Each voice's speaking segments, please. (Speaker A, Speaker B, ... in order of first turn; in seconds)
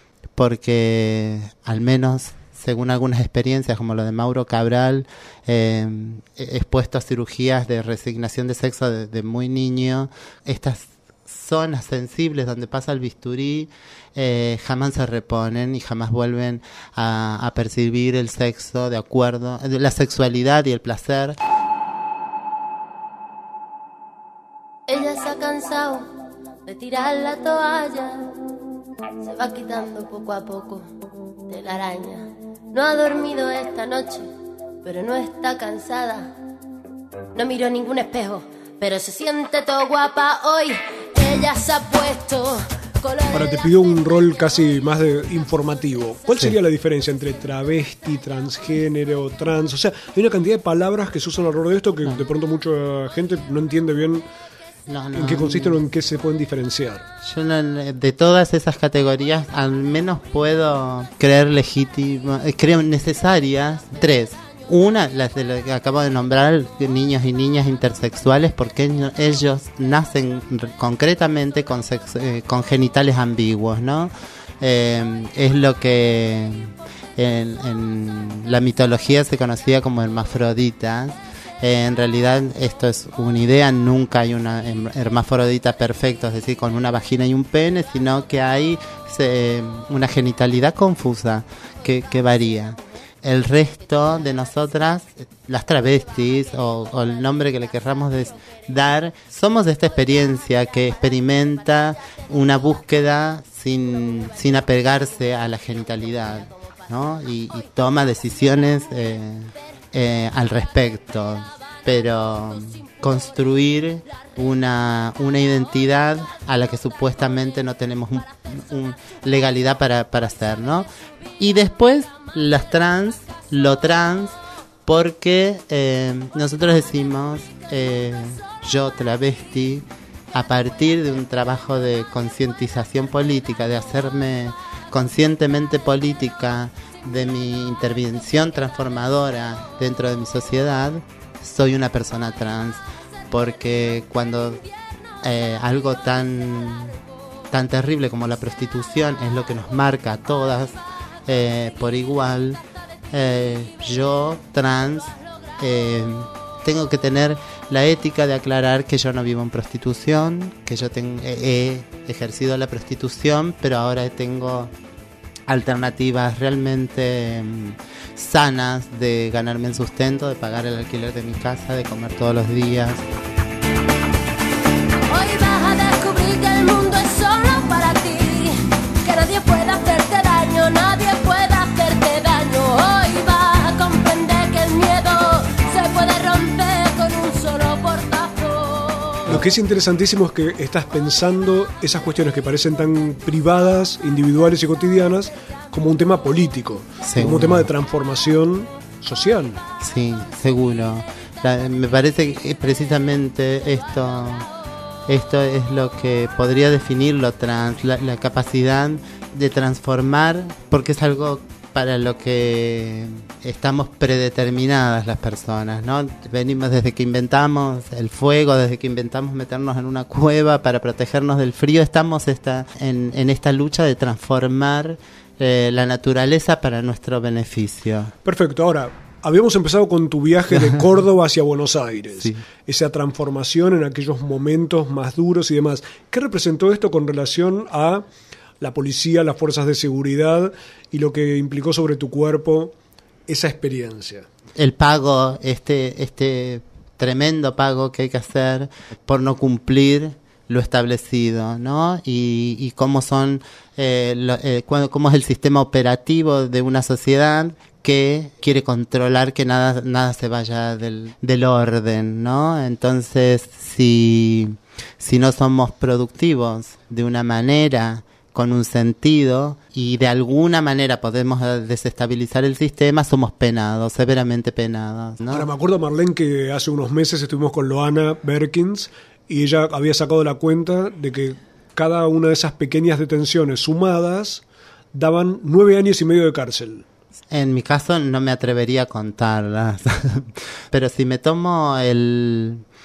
Speaker A: 0.4-21.4, 54.9-55.8, 57.2-120.9, 121.4-124.3, 124.9-144.6, 145.2-147.0, 147.5-150.8, 151.3-152.6, 153.1-164.7, 165.5-173.0, 197.0-197.7, 199.8-204.5, 205.1-228.1, 230.5-230.8, 244.6-275.5, 287.3-292.6
Speaker B: 24.9-26.1, 26.7-28.3, 29.3-30.9, 31.5-34.3, 34.8-36.3, 37.4-43.7, 175.1-189.3
Speaker C: 43.3-54.2, 55.1-57.0, 189.3-199.6, 228.2-238.1, 238.6-242.7, 243.3-244.3, 275.3-284.4, 284.9-286.9